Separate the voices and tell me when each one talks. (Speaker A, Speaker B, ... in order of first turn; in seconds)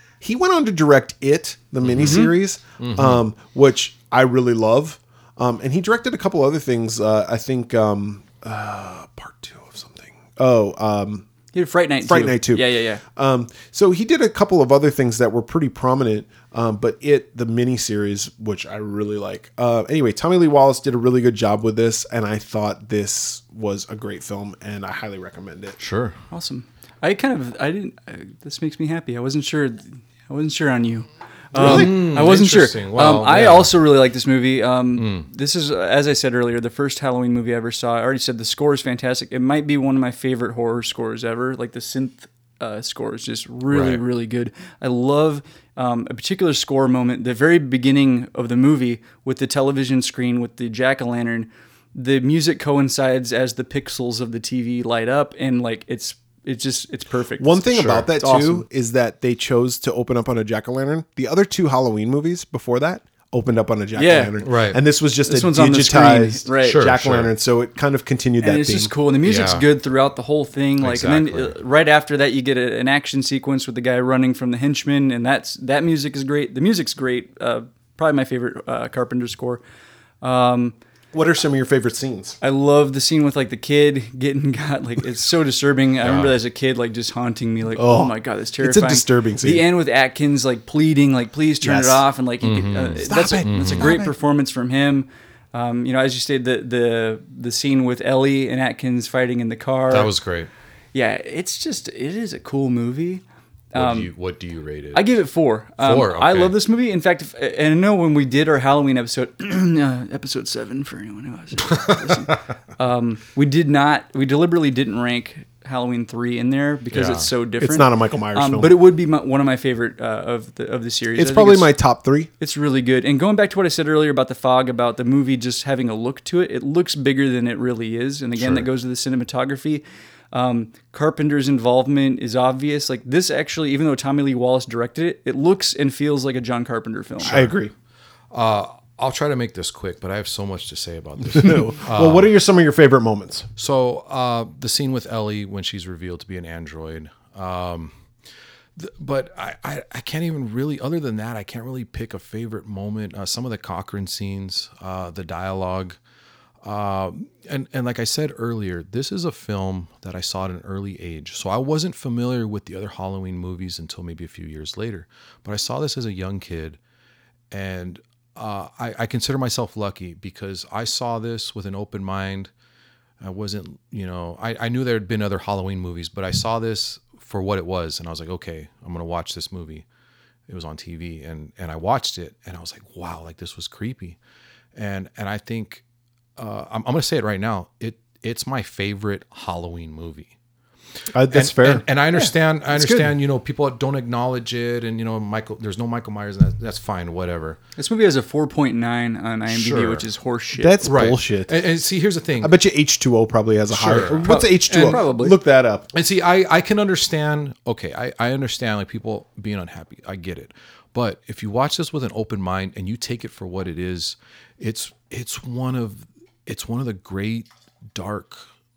Speaker A: 0.2-11.2, 12.0-25.8, 31.5-31.9, 57.4-68.9, 81.1-82.4, 87.8-89.7, 91.6-92.0, 93.0-94.1, 117.6-118.8, 121.2-122.3, 137.3-137.7, 141.3-143.5, 191.1-191.8, 192.8-193.0, 200.5-201.5, 202.4-205.9
Speaker B: 1.8-2.3, 2.8-3.2, 25.8-26.2, 31.6-33.7, 35.0-35.3, 43.7-44.0, 64.4-64.8, 66.6-67.3, 69.2-69.7, 70.8-71.5, 86.0-86.3, 92.4-94.0, 99.9-100.5, 103.8-105.1, 105.8-106.5, 111.7-112.4, 116.9-117.3, 128.4-128.7, 137.2-137.5, 138.3-142.3, 143.6-147.9, 148.8-156.0, 156.6-166.8, 167.5-172.5, 173.2-179.8, 180.5-184.2, 184.8-185.8, 186.4-190.3, 191.3-197.6, 199.5-200.0, 200.8-202.6, 203.7-205.0, 205.9-218.4
Speaker C: 2.0-2.3, 11.5-13.0, 26.3-58.6, 64.0-64.3, 65.3-66.8, 68.4-79.6, 80.2-80.8, 82.4-100.1, 100.9-103.2, 103.7-104.1, 104.9-121.8, 122.4-137.4, 197.8-200.8, 204.2-205.4